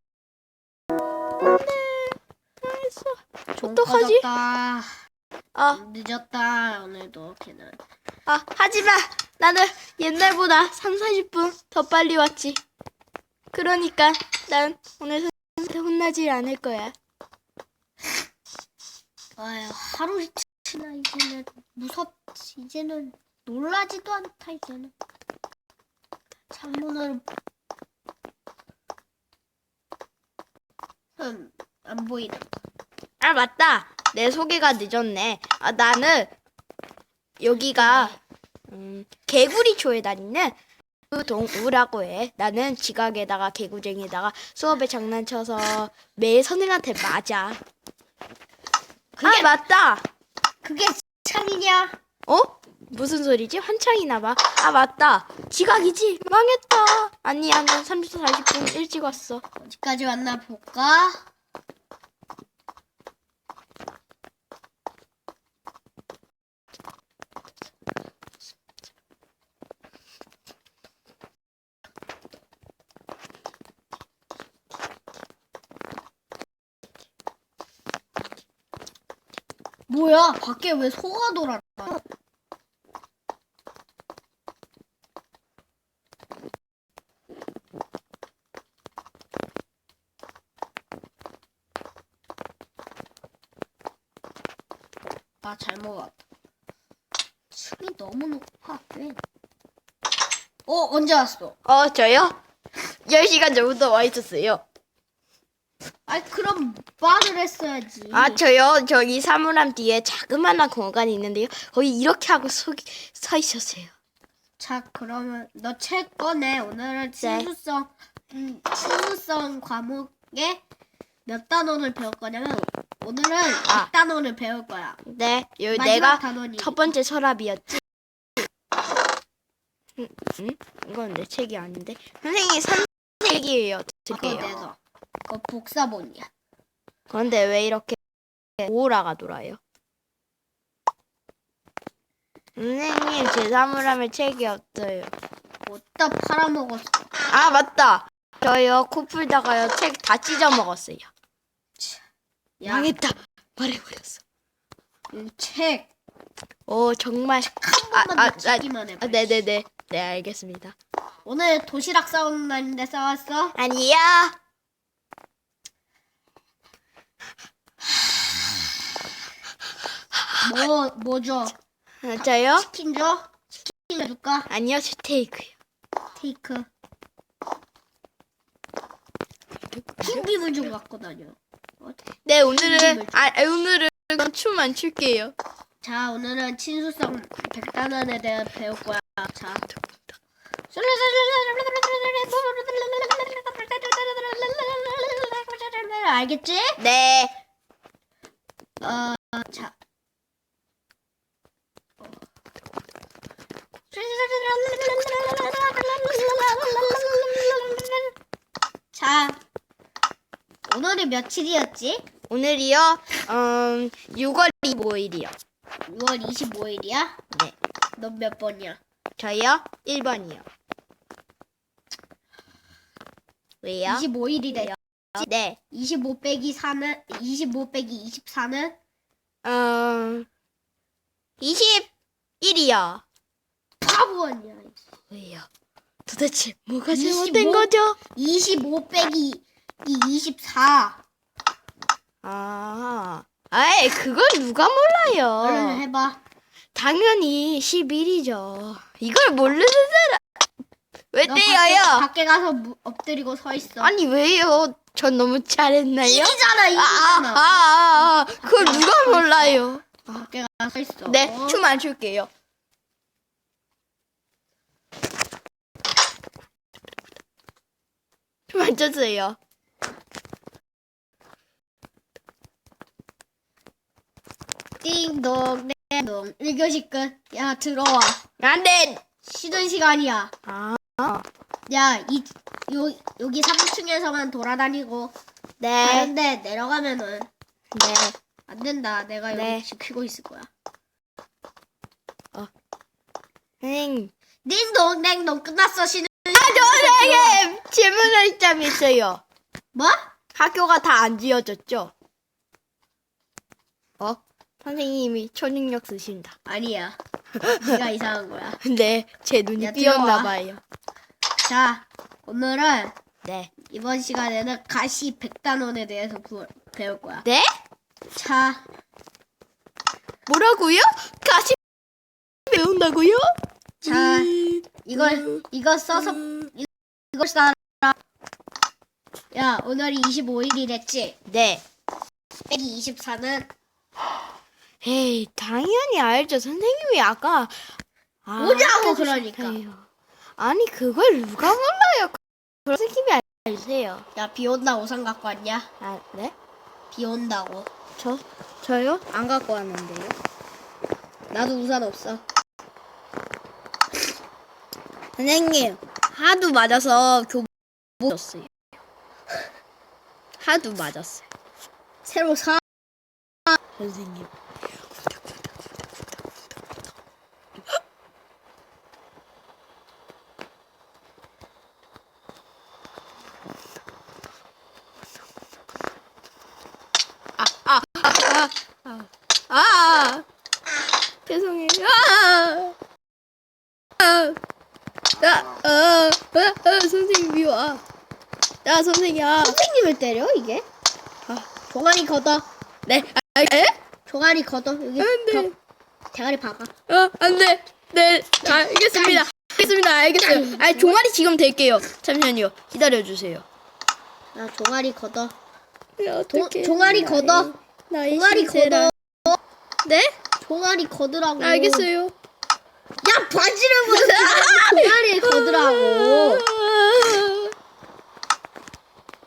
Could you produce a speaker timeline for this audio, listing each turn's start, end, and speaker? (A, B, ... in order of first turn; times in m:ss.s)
0:01.4-0:04.2 A
0:03.6-0:04.9 B
0:05.5-0:05.8 A
0:05.7-0:07.8 B
0:08.3-0:12.6 A
0:13.5-0:16.9 A
0:19.4-0:24.9 B
0:26.5-0:27.2 B
0:31.2-0:32.5 B
0:33.2-0:36.3 A
0:37.4-0:38.2 A
0:37.8-0:38.1 B
0:38.7-0:40.6 A
0:41.1-0:47.6 A
0:49.2-0:49.6 B
0:49.2-0:50.0 A
0:50.6-0:52.0 B
0:52.3-0:59.4 A
0:59.6-1:01.2 B
1:19.9-1:22.0 B
1:35.4-1:36.2 B
1:37.5-1:39.2 B
1:40.6-1:41.5 B
1:41.6-1:42.4 A
1:43.0-1:44.6 A
1:46.1-1:48.4 B
1:48.1-1:53.9 A
1:54.6-2:00.6 B
1:57.2-1:57.5 A
2:01.2-2:05.0 B
2:03.6-2:03.9 A
2:05.0-2:07.8 A
2:05.7-2:06.8 B
2:10.0-2:14.5 A
2:14.1-2:16.3 B
2:17.1-2:18.0 A
2:18.6-2:19.6 A
2:22.6-2:25.1 A
2:25.6-2:27.1 B
2:27.3-2:31.1 A
2:32.6-2:33.0 B
2:32.6-2:34.2 A
2:35.1-2:35.9 B
2:36.7-2:40.8 A
2:37.6-2:39.4 B
2:41.2-2:43.5 B
2:43.6-2:44.4 A
2:50.2-2:50.7 A
2:50.4-2:51.5 B
2:52.0-2:52.7 A
2:52.2-2:54.5 B
2:54.5-2:55.5 A
2:56.2-2:56.7 B
2:59.8-3:00.2 A
3:00.0-3:03.3 B
3:02.2-3:05.3 A
3:05.8-3:09.6 B
3:10.7-3:16.8 B
3:16.8-3:17.3 A
3:18.8-3:19.7 B
3:23.9-3:28.1 B
3:28.9-3:29.4 B
3:30.7-3:32.0 B
3:32.3-3:35.3 A
3:35.9-3:37.2 B
3:38.0-3:38.8 B
3:39.2-3:40.4 A
3:43.6-3:44.0 A
3:43.8-3:44.8 B
3:45.2-3:45.6 A
3:45.7-3:48.7 B
3:49.4-3:50.3 A
3:51.4-3:51.9 A
3:52.4-3:53.0 A
3:53.8-3:54.8 B
3:55.1-3:55.5 A
3:56.0-3:58.0 A
3:56.9-4:01.0 B
4:02.2-4:05.8 A
4:05.4-4:06.2 B
4:06.7-4:10.2 A
4:11.1-4:12.0 A
4:11.2-4:13.9 B
4:13.8-4:20.2 A
4:16.0-4:21.6 B
4:21.1-4:22.3 A
4:28.5-4:29.4 A
4:34.8-4:38.2 B
4:38.4-4:39.0 A
4:39.2-4:40.3 B
4:40.4-4:41.3 A
4:41.7-4:45.1 B
4:45.6-4:46.1 A
4:45.8-4:47.3 B
4:47.7-4:48.2 A
4:48.5-4:50.5 B
4:49.3-4:49.6 A
4:53.6-4:54.1 A
4:54.4-4:57.4 B
4:56.3-4:59.2 A
4:59.7-5:00.0 B
5:00.3-5:01.9 A
5:04.0-5:06.3 A
5:06.4-5:08.6 B
5:08.6-5:10.6 A
5:09.6-5:10.4 B
5:11.4-5:12.9 B
5:13.2-5:13.5 A
5:13.6-5:17.2 B
5:18.1-5:18.6 B
5:20.3-5:21.6 A
5:22.5-5:25.4 A
5:23.8-5:27.9 B
5:29.3-5:31.2 B
5:31.3-5:31.6 A
5:32.5-5:33.5 B
5:34.8-5:37.6 A
5:38.2-5:39.9 A
5:38.4-5:39.6 B
5:40.4-5:44.0 A
5:44.1-5:45.7 B
5:45.8-5:46.3 A
5:46.9-5:47.7 B
5:48.0-5:50.2 A
5:51.3-5:52.2 A
5:55.2-5:57.5 A
5:58.0-5:58.5 A
6:00.4-6:01.2 A
6:02.0-6:02.6 B
6:03.7-6:04.3 A
6:17.4-6:20.2 A
6:21.2-6:22.7 A
6:24.0-6:24.4 A
6:25.2-6:27.8 A
6:28.6-6:29.6 A
6:29.4-6:30.6 B
6:31.7-6:32.4 B
6:32.9-6:33.8 A
6:34.0-6:35.5 B
6:35.0-6:35.5 A
6:36.1-6:36.7 B
6:36.9-6:43.4 A
6:38.4-6:39.3 B
6:40.2-6:40.9 B
6:44.3-6:45.3 B
6:46.0-6:48.9 A
6:46.3-6:47.5 B
6:48.1-6:49.4 B
6:49.8-6:50.1 A
6:50.4-6:51.9 B
6:51.4-6:52.1 A
6:53.0-6:56.4 B
6:53.9-6:57.5 A